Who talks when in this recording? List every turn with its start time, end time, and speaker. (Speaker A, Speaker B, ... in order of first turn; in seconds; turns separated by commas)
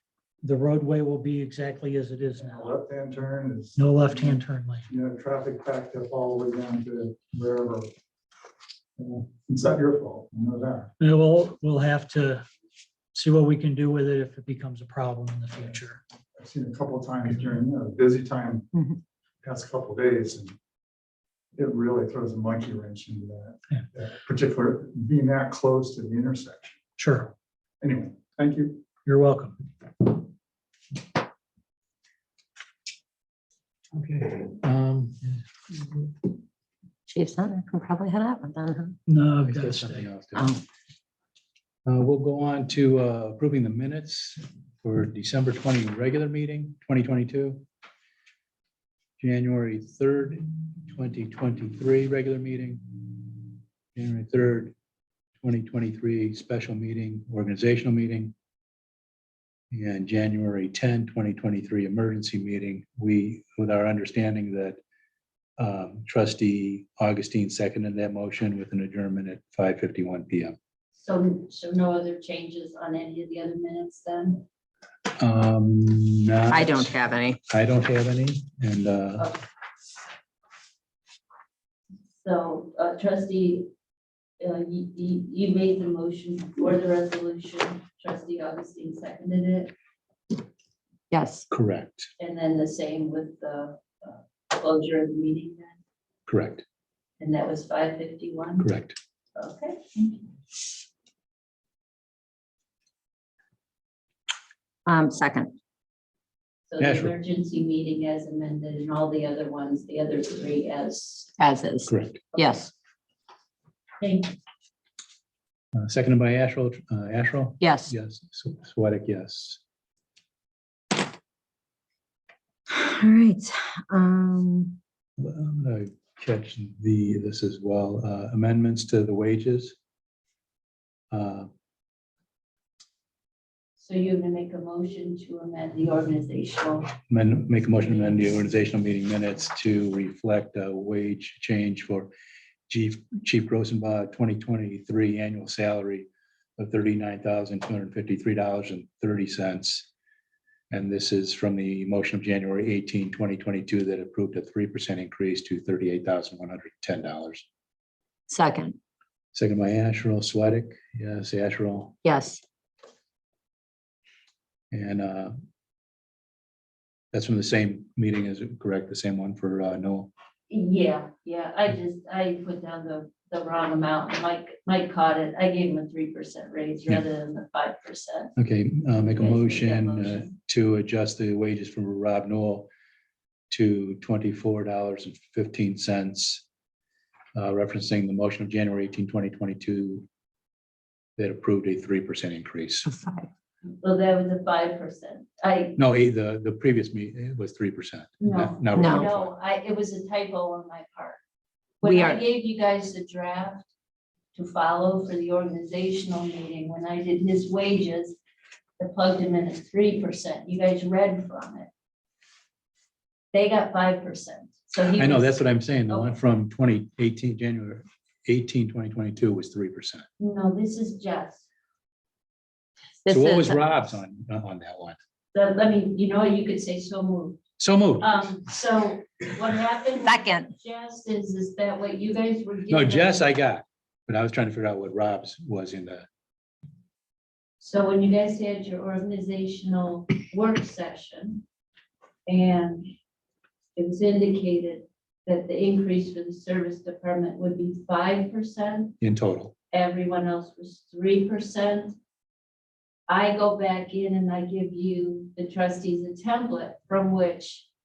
Speaker A: 0.4-2.7, Speaker B: 2.4-7.9, Speaker A: 3.8-4.9, Speaker B: 9.0-10.9, Speaker A: 11.0-12.4, Speaker A: 13.1-16.0, Speaker B: 16.4-18.8, Speaker B: 19.4-20.6, Speaker B: 21.5-26.8, Speaker A: 27.0-27.3, Speaker B: 27.8-28.9, Speaker A: 29.0-29.6, Speaker C: 33.9-36.3, Speaker D: 37.1-39.0, Speaker A: 39.1-40.0, Speaker C: 39.5-40.5, Speaker D: 40.3-40.6, Speaker C: 41.9-47.6, Speaker C: 49.2-54.7, Speaker C: 55.4-58.3, Speaker C: 59.7-64.8, Speaker C: 65.6-70.5, Speaker E: 70.9-74.4, Speaker C: 75.2-76.9, Speaker D: 76.5-77.4, Speaker C: 77.5-79.3, Speaker E: 82.1-83.7, Speaker E: 84.4-89.7, Speaker D: 91.1-91.5, Speaker C: 91.5-92.1, Speaker E: 92.2-95.8, Speaker C: 96.3-96.6, Speaker E: 97.2-98.7, Speaker C: 98.6-99.0, Speaker E: 99.3-100.2, Speaker D: 104.8-105.5, Speaker E: 106.7-111.3, Speaker C: 106.8-107.1, Speaker D: 111.4-112.7, Speaker C: 111.9-112.2, Speaker E: 114.0-114.4, Speaker C: 115.8-119.6, Speaker D: 117.6-117.9, Speaker D: 122.7-124.8, Speaker C: 125.2-129.7, Speaker C: 131.1-131.5, Speaker E: 133.8-136.9, Speaker C: 137.1-142.1, Speaker C: 142.7-149.9, Speaker C: 150.7-157.4, Speaker D: 158.3-158.8, Speaker C: 159.3-161.9, Speaker D: 162.0-162.4, Speaker C: 164.7-165.3, Speaker C: 167.1-170.1, Speaker E: 170.5-178.3, Speaker C: 178.4-182.7, Speaker E: 179.1-180.3, Speaker C: 183.5-186.4, Speaker C: 187.3-190.1, Speaker C: 191.2-192.9, Speaker D: 192.8-193.3, Speaker E: 193.8-195.8, Speaker C: 195.8-199.3, Speaker E: 198.2-201.2, Speaker D: 198.7-199.1, Speaker E: 201.8-203.7, Speaker D: 201.8-202.2, Speaker E: 204.3-208.2, Speaker E: 208.8-211.7, Speaker E: 213.3-216.1, Speaker C: 214.9-220.1, Speaker E: 220.2-221.4, Speaker D: 223.0-223.6, Speaker C: 223.1-225.0, Speaker E: 225.3-227.4, Speaker C: 227.6-228.3, Speaker E: 228.0-233.2, Speaker D: 230.0-230.5, Speaker C: 232.7-236.1, Speaker E: 237.6-241.4, Speaker E: 242.3-242.9, Speaker E: 243.8-249.0, Speaker C: 249.0-249.5, Speaker E: 249.7-252.0, Speaker E: 253.1-257.7